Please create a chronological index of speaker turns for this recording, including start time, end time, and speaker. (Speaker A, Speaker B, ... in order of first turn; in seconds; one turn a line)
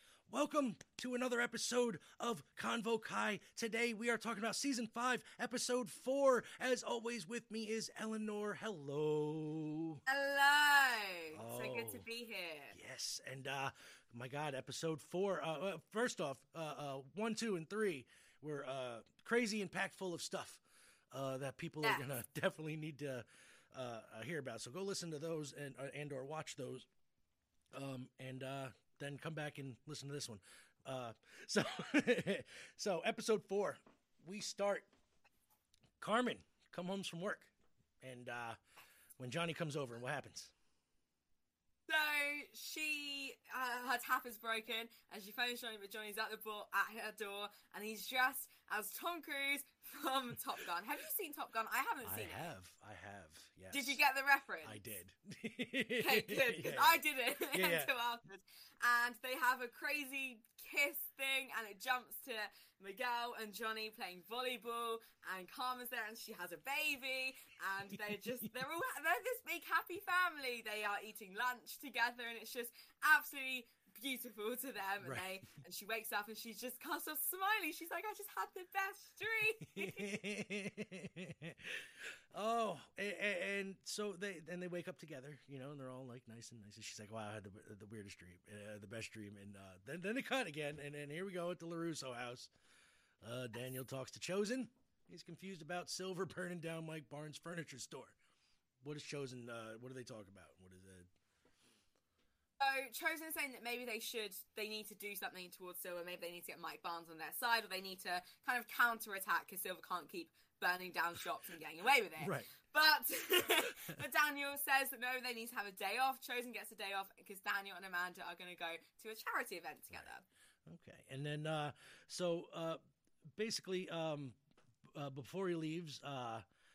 Speaker A: 0.3-10.0
Speaker B: 10.1-12.8
Speaker A: 11.3-12.1
Speaker A: 12.7-26.9
Speaker B: 21.8-22.2
Speaker A: 27.7-34.9
Speaker A: 36.0-38.6
Speaker A: 39.2-40.5
Speaker B: 41.9-52.4
Speaker A: 52.0-54.0
Speaker B: 53.7-54.8
Speaker A: 54.6-57.9
Speaker B: 56.0-80.1
Speaker A: 75.0-75.5
Speaker A: 79.7-92.5
Speaker A: 93.2-98.2
Speaker A: 98.8-101.1
Speaker B: 102.6-120.2
Speaker A: 112.2-112.5
Speaker A: 120.7-122.8
Speaker A: 123.4-124.4
Speaker A: 124.9-126.4